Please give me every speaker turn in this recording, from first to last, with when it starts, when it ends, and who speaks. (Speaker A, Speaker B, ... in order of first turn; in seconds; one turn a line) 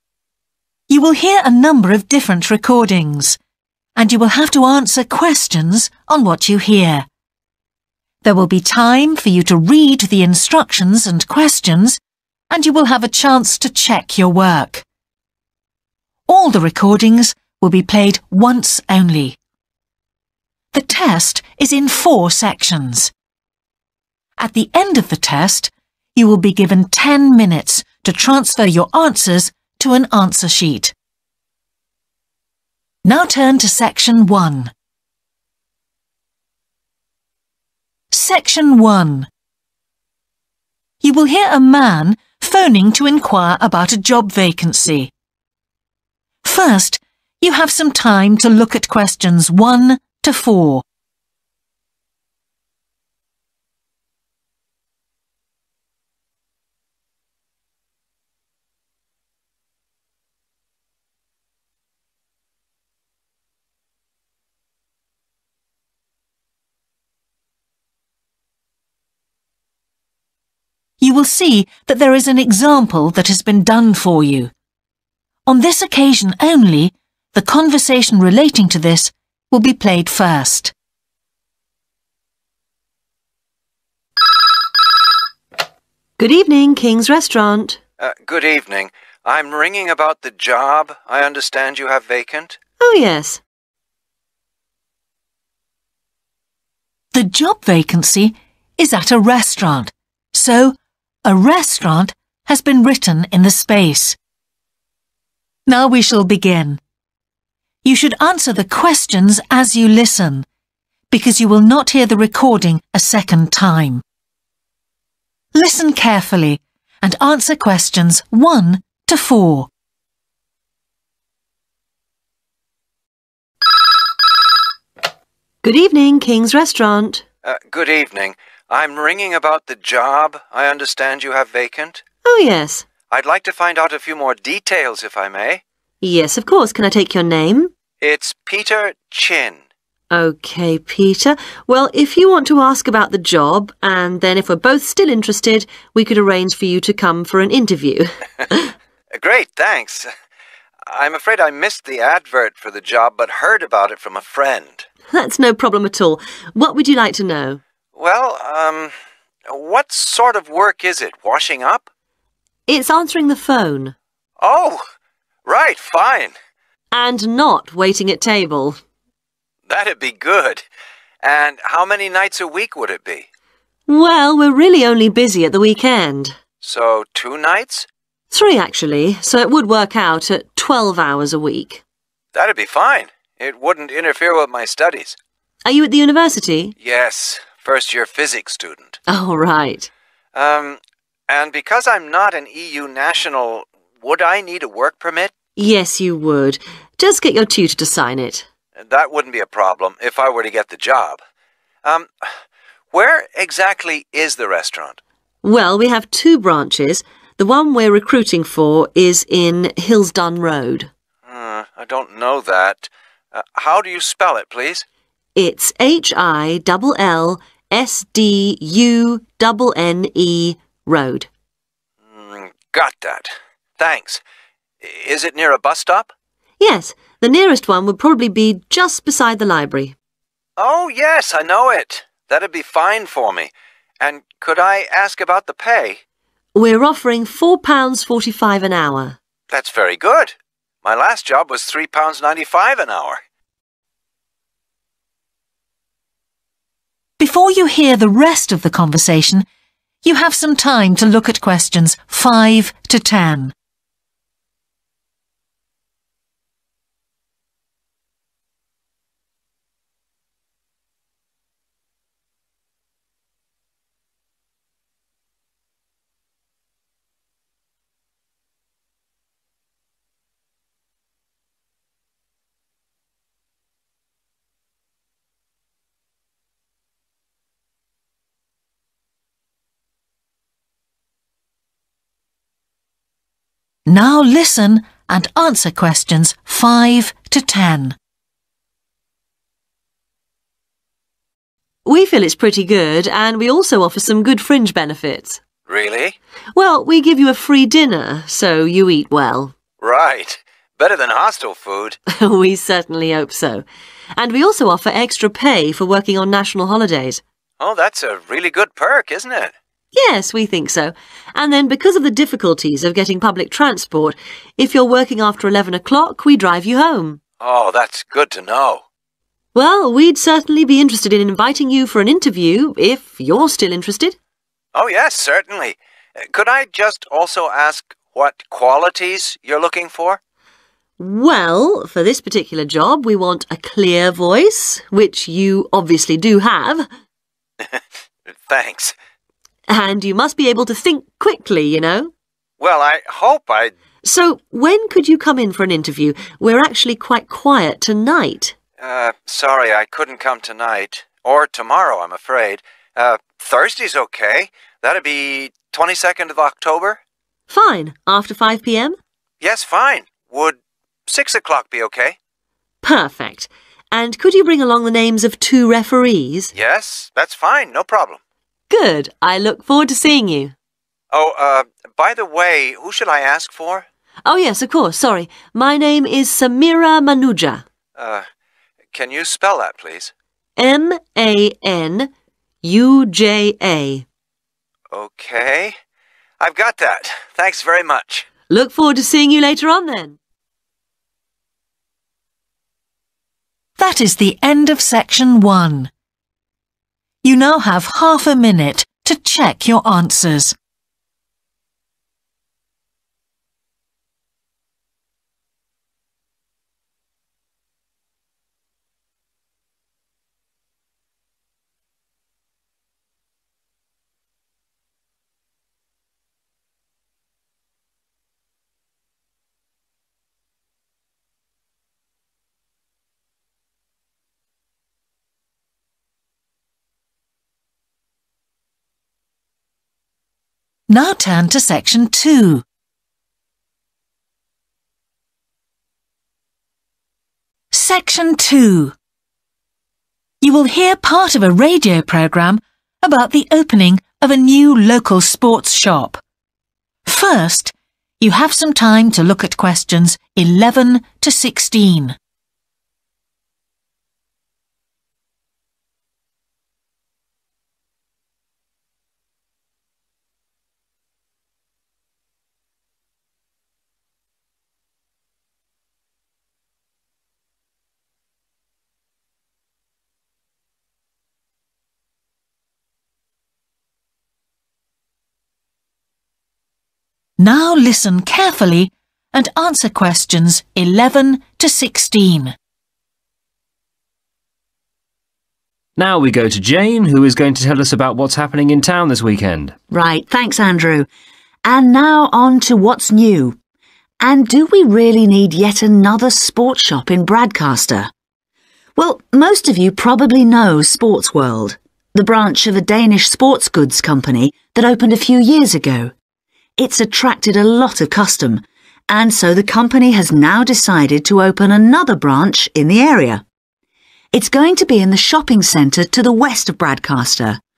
Speaker A: 0.9-3.4
Speaker A: 4.0-7.0
Speaker A: 8.2-12.0
Speaker A: 12.5-14.8
Speaker A: 16.3-19.4
Speaker A: 20.7-23.1
Speaker A: 24.4-30.9
Speaker A: 33.0-34.7
Speaker A: 38.1-39.3
Speaker A: 41.0-45.1
Speaker A: 46.4-50.8
Speaker A: 71.0-74.5
Speaker A: 75.5-80.7
Speaker B: 86.2-87.8
Speaker C: 88.0-92.6
Speaker B: 92.8-93.4
Speaker A: 97.1-104.2
Speaker A: 105.7-106.8
Speaker A: 107.8-110.5
Speaker A: 111.1-114.0
Speaker A: 115.5-119.7
Speaker B: 125.6-127.2
Speaker C: 127.4-132.0
Speaker B: 132.2-132.8
Speaker C: 133.1-135.6
Speaker B: 136.0-137.7
Speaker C: 138.0-139.6
Speaker B: 140.1-148.7
Speaker C: 149.1-150.1
Speaker C: 150.9-154.8
Speaker B: 155.1-157.6
Speaker C: 157.9-158.9
Speaker C: 159.5-161.8
Speaker B: 162.7-163.9
Speaker C: 164.4-164.8
Speaker C: 165.4-166.3
Speaker B: 166.9-168.8
Speaker C: 169.7-170.6
Speaker C: 171.2-173.2
Speaker B: 173.9-176.3
Speaker C: 176.6-177.9
Speaker B: 178.3-181.8
Speaker C: 182.3-185.2
Speaker B: 185.6-186.7
Speaker C: 186.8-189.0
Speaker B: 189.1-189.9
Speaker C: 190.3-195.3
Speaker B: 195.6-198.4
Speaker C: 198.8-201.2
Speaker C: 201.8-202.1
Speaker C: 202.9-205.0
Speaker B: 205.4-210.9
Speaker C: 211.2-214.8
Speaker B: 215.3-221.3
Speaker C: 222.1-224.2
Speaker C: 224.8-226.1
Speaker B: 226.6-229.9
Speaker C: 230.6-236.0
Speaker B: 236.5-239.2
Speaker C: 239.5-243.2
Speaker A: 247.2-249.4
Speaker A: 250.0-253.5
Speaker A: 283.9-287.9
Speaker B: 291.8-295.4
Speaker C: 295.7-296.1
Speaker B: 296.5-299.5
Speaker C: 299.8-302.0
Speaker B: 302.1-303.6
Speaker B: 304.1-307.2
Speaker C: 307.6-309.5
Speaker B: 309.9-317.2
Speaker C: 317.4-318.8
Speaker B: 319.5-324.1
Speaker C: 324.7-330.2
Speaker B: 331.0-336.9
Speaker C: 337.7-338.9
Speaker B: 339.7-342.1
Speaker C: 342.6-343.7
Speaker B: 344.0-348.5
Speaker C: 348.8-357.0
Speaker B: 357.5-359.0
Speaker C: 359.4-362.1
Speaker B: 362.8-366.5
Speaker C: 366.5-368.2
Speaker B: 368.7-370.5
Speaker C: 371.1-373.8
Speaker B: 374.2-377.6
Speaker C: 377.9-378.2
Speaker C: 378.9-380.1
Speaker B: 380.6-382.1
Speaker B: 382.6-384.0
Speaker C: 384.9-385.7
Speaker C: 386.4-388.3
Speaker B: 388.5-390.2
Speaker A: 393.8-395.9
Speaker A: 397.2-400.5
Speaker A: 430.9-432.6
Speaker A: 437.7-438.9
Speaker A: 440.4-446.2
Speaker A: 447.0-452.1
Speaker A: 477.4-482.5
Speaker D: 486.0-489.8
Speaker E: 489.9-491.1
Speaker E: 491.6-493.6
Speaker E: 494.2-498.1
Speaker E: 498.9-506.1
Speaker E: 506.8-513.4
Speaker E: 514.3-517.6